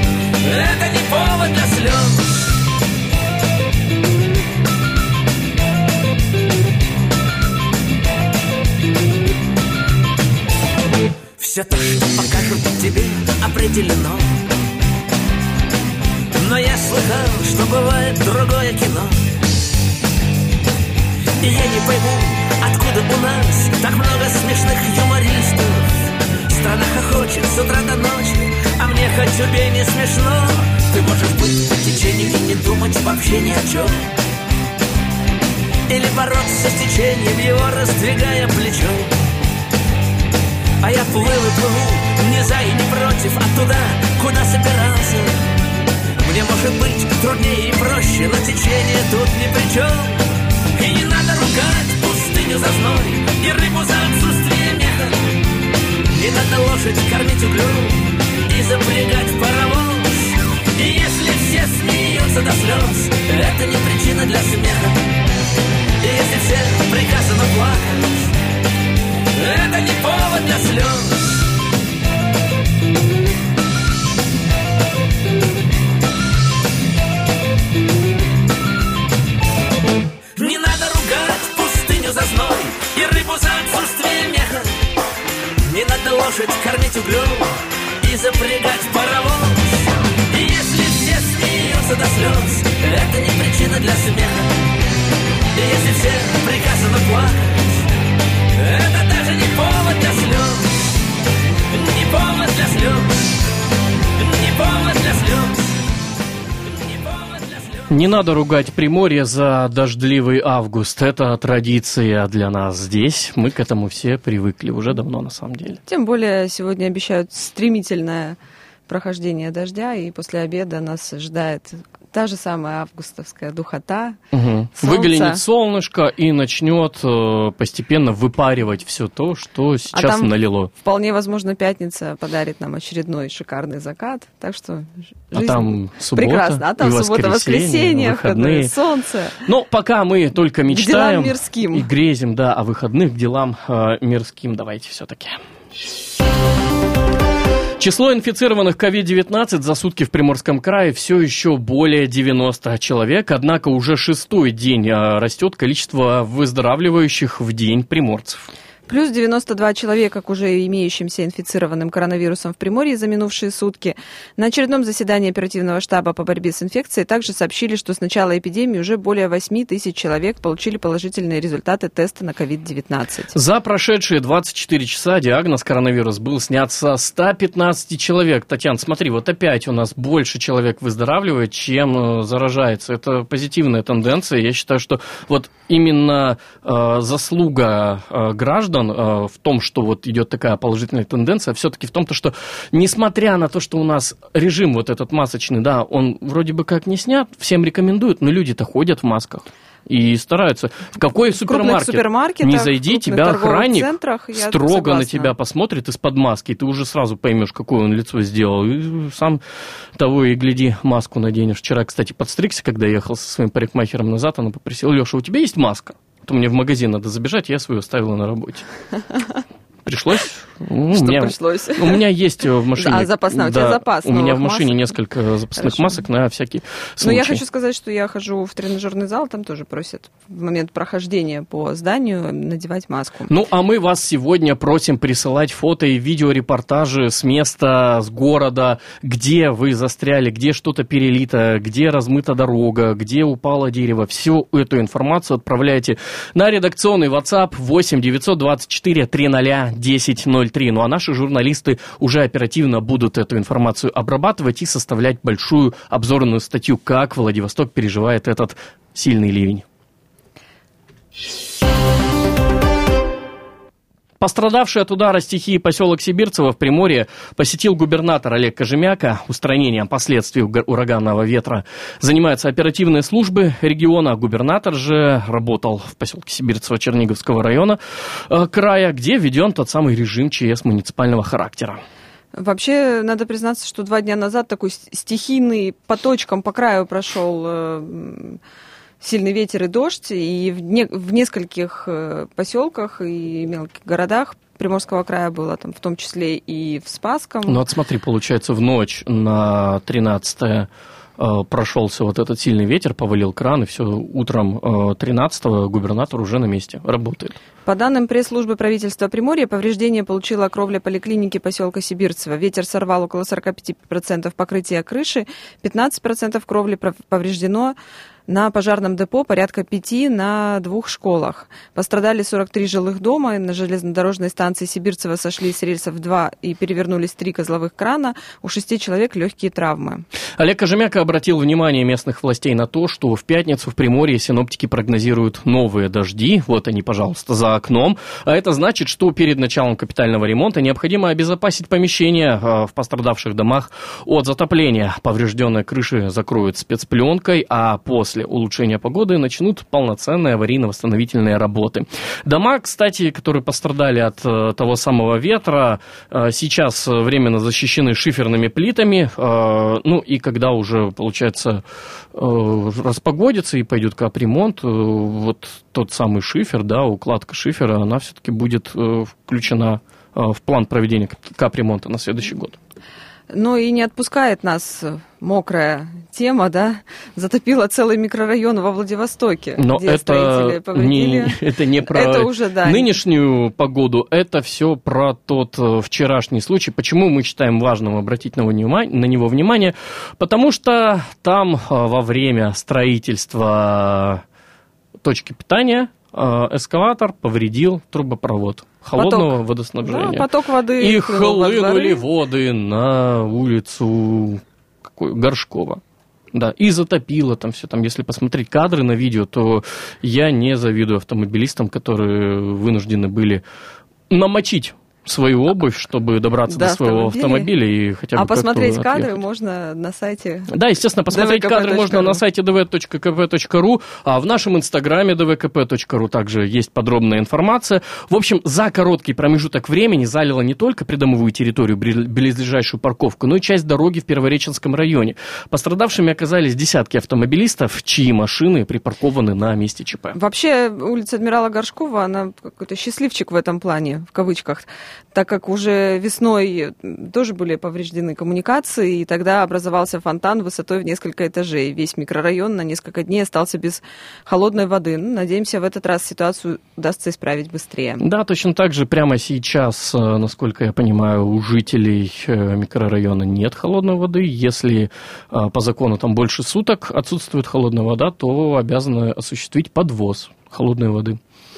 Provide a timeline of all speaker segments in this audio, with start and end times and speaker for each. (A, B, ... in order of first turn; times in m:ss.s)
0:00.4-0:02.6 A
0:11.4-0:14.4 A
0:16.3-0:19.3 A
0:21.4-0:34.0 A
0:35.9-0:39.1 A
0:40.8-0:45.5 A
0:46.2-0:55.2 A
0:56.1-1:05.0 A
1:06.0-1:08.3 A
1:09.3-1:11.4 A
1:20.4-1:24.7 A
1:25.6-1:34.5 A
1:35.5-1:37.8 A
1:38.5-1:40.9 A
1:41.7-1:43.2 A
1:44.2-1:45.7 A
1:46.7-1:47.9 A
1:47.9-1:55.8 B
1:55.9-1:58.4 C
1:58.9-2:04.2 C
2:04.3-2:10.7 B
2:04.8-2:05.4 C
2:09.9-2:19.4 C
2:15.4-2:18.7 B
2:19.4-2:25.4 B
2:20.7-2:21.9 C
2:27.8-2:38.4 B
2:38.9-2:53.3 C
2:53.3-3:29.4 B
3:21.4-3:25.3 C
3:30.0-3:38.6 B
3:39.8-3:47.4 B
3:40.9-3:42.0 C
3:42.7-3:44.9 C
3:45.6-3:45.9 C
3:47.0-3:53.3 C
3:53.3-4:19.6 B
4:24.2-4:41.8 B
4:42.3-4:48.4 C
4:49.0-4:57.6 C
4:57.5-5:07.3 B
5:07.6-5:17.8 C
5:18.3-5:30.0 C
5:30.4-6:01.6 B
6:02.1-6:12.6 B
6:13.3-6:22.9 C
6:19.6-6:34.2 B
6:35.0-6:40.3 B
6:39.0-6:42.0 C
6:40.8-6:44.4 B
6:44.9-6:45.8 B
6:46.3-6:53.4 B
6:54.1-6:59.2 B
6:56.5-6:57.5 C
6:58.1-7:00.5 C
7:00.5-7:20.2 B
7:01.1-7:02.2 C
7:20.1-7:38.0 C
7:38.0-7:51.2 B